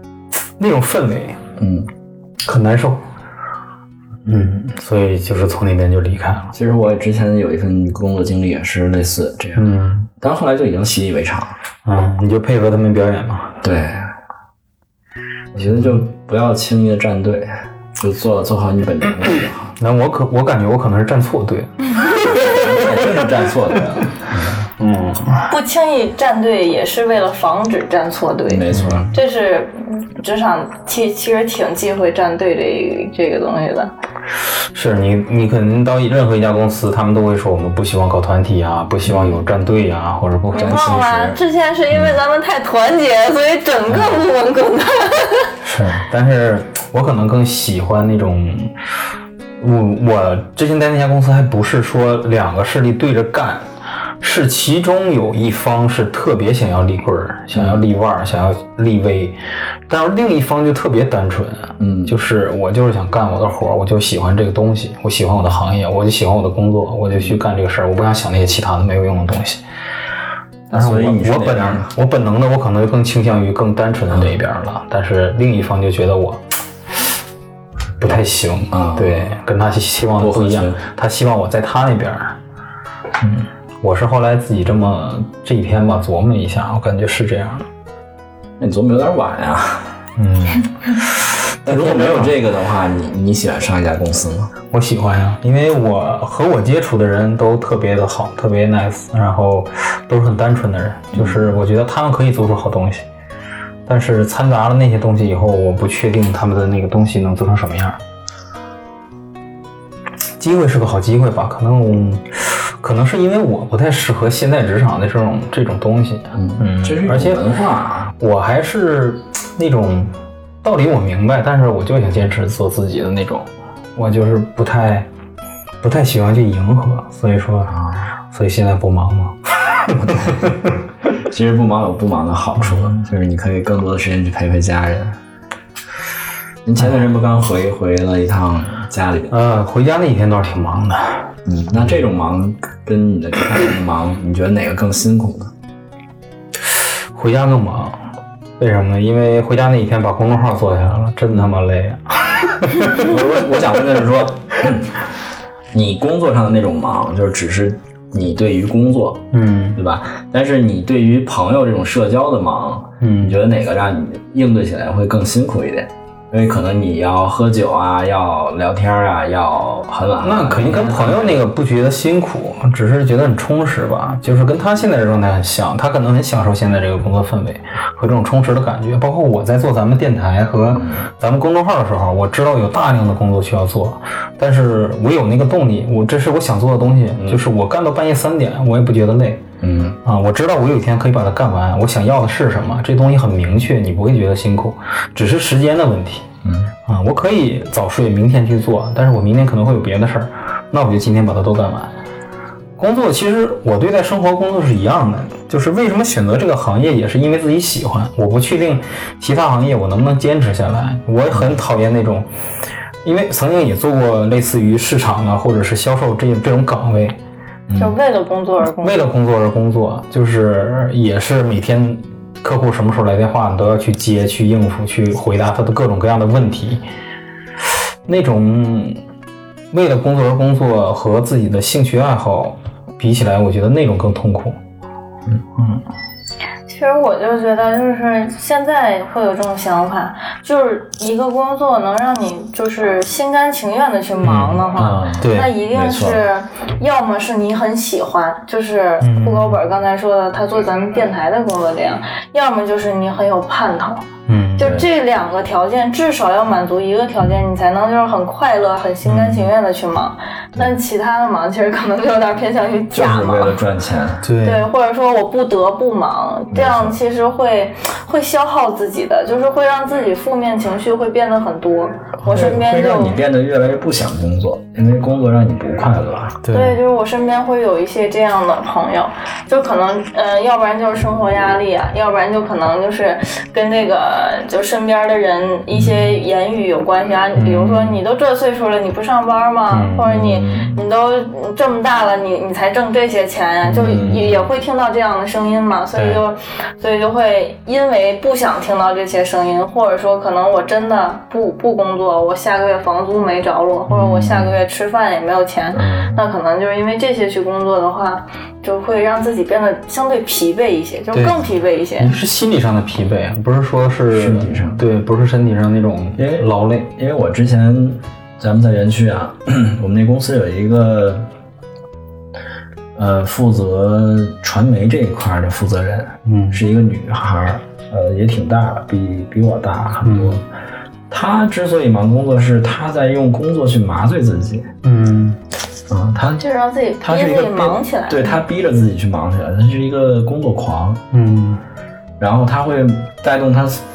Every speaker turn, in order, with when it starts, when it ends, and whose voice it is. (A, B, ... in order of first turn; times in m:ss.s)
0:00.6-0:01.4 A
0:01.6-0:01.9 B
0:02.4-0:03.0 A
0:04.2-0:06.5 A
0:06.5-0:09.7 B
0:09.6-0:10.1 A
0:10.2-0:11.5 B
0:11.8-0:13.6 A
0:13.6-0:14.1 B
0:15.5-0:19.7 B
0:15.7-0:16.0 A
0:19.8-0:23.3 A
0:22.3-0:24.6 B
0:24.8-0:25.4 A
0:25.4-0:33.9 C
0:28.5-0:29.1 B
0:28.7-0:29.1 A
0:34.7-0:41.3 A
0:39.0-0:39.4 B
0:40.5-0:45.5 C
0:40.7-0:41.2 B
0:45.6-0:48.7 A
0:49.6-0:53.6 A
0:54.2-0:59.4 A
0:57.5-0:57.8 B
0:59.9-1:09.6 A
1:01.8-1:02.2 B
1:10.7-1:11.9 B
1:10.7-1:16.4 A
1:18.0-1:22.4 A
1:18.7-1:19.3 B
1:20.2-1:20.8 B
1:23.8-1:27.7 A
1:28.6-1:29.9 B
1:30.2-1:30.9 A
1:31.6-1:34.5 B
1:31.6-1:32.3 A
1:34.7-1:43.1 A
1:41.1-1:41.4 B
1:43.8-1:48.0 A
1:50.4-1:57.4 A
1:56.4-1:58.1 B
1:58.2-2:05.1 A
2:05.8-2:07.8 A
2:07.7-2:08.0 B
2:08.3-2:10.7 A
2:10.0-2:10.4 B
2:11.2-2:15.2 B
2:16.6-2:19.3 B
2:19.3-2:21.3 A
2:21.4-2:25.5 B
2:27.1-2:28.0 A
2:28.6-2:33.2 A
2:32.9-2:35.0 B
2:35.7-2:39.2 B
2:39.3-2:39.8 A
2:39.8-2:51.4 B
2:43.0-2:43.4 A
2:50.2-3:09.4 A
3:00.8-3:01.0 B
3:09.6-3:10.0 B
3:10.0-3:16.3 A
3:16.4-3:16.7 B
3:16.9-3:21.9 A
3:22.8-3:32.3 A
3:33.0-3:37.2 A
3:37.7-3:38.0 B
3:37.8-3:39.0 C
3:38.8-3:46.8 A
3:48.0-3:49.0 A
3:49.7-3:54.6 A
3:56.7-4:14.0 C
4:04.2-4:05.5 A
4:04.7-4:06.2 B
4:09.0-4:09.6 A
4:14.3-4:14.8 A
4:14.6-4:23.6 C
4:14.6-4:14.9 B
4:19.0-4:19.4 A
4:22.9-4:24.2 B
4:24.2-4:24.7 A
4:24.4-4:33.2 C
4:26.5-4:27.0 B
4:32.2-4:36.4 B
4:32.3-4:32.6 A
4:35.9-4:36.8 A
4:36.5-5:12.1 C
4:45.8-4:46.1 A
4:47.4-4:48.0 A
4:49.7-4:50.1 A
4:50.0-4:50.8 B
4:53.6-4:54.3 A
4:53.9-4:54.3 B
4:55.9-4:56.2 A
5:03.9-5:04.6 A
5:05.7-5:06.2 B
5:11.1-5:11.5 A
5:12.0-5:16.9 A
5:14.1-5:14.8 B
5:16.2-5:21.3 B
5:23.0-5:30.4 B
5:26.2-5:26.6 A
5:30.0-5:30.4 A
5:31.1-5:34.7 B
5:34.8-5:35.4 A
5:35.9-5:36.4 B
5:36.4-5:38.4 C
5:37.0-5:41.0 B
5:41.1-5:41.6 A
5:42.2-5:43.8 B